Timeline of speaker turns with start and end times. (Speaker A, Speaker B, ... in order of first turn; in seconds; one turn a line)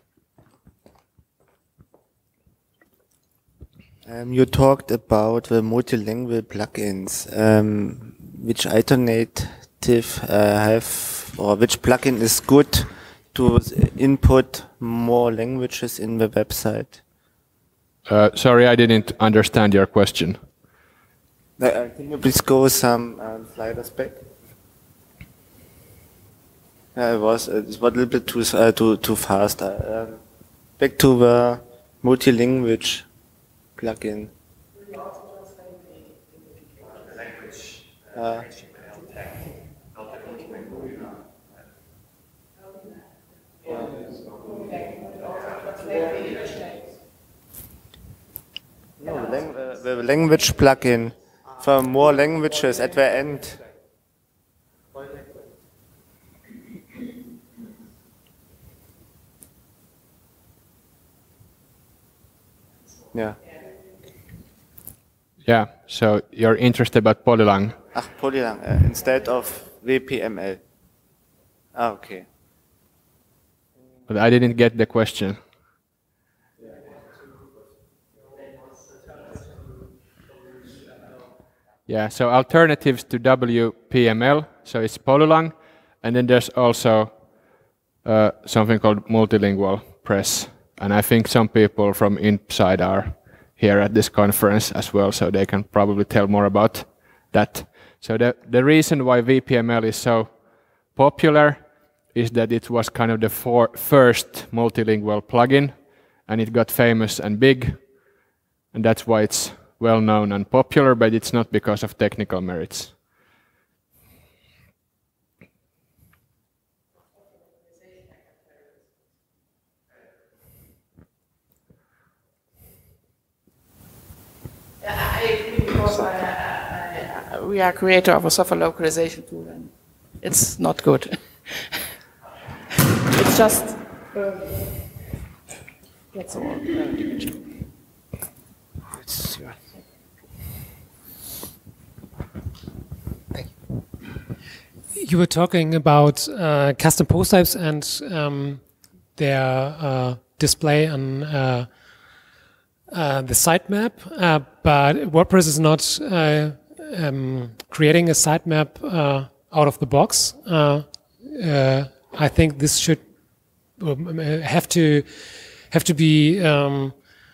Speaker A: 4.0-17.0
Speaker B: 18.1-20.4
Speaker A: 21.6-24.2
Speaker A: 26.9-30.2
Speaker A: 30.8-33.0
Speaker A: 33.8-34.3
Speaker A: 38.1-38.6
Speaker A: 49.0-53.6
Speaker A: 63.1-63.4
Speaker B: 65.4-67.8
Speaker A: 67.9-70.6
Speaker A: 71.7-72.2
Speaker B: 74.1-75.4
Speaker B: 81.9-87.1
Speaker B: 88.0-100.3
Speaker B: 100.9-107.8
Speaker B: 108.7-113.0
Speaker C: 124.8-131.9
Speaker C: 133.1-134.4
Speaker C: 136.1-137.4
Speaker D: 144.9-148.6
Speaker D: 149.1-151.7
Speaker D: 152.9-163.1
Speaker D: 163.8-167.0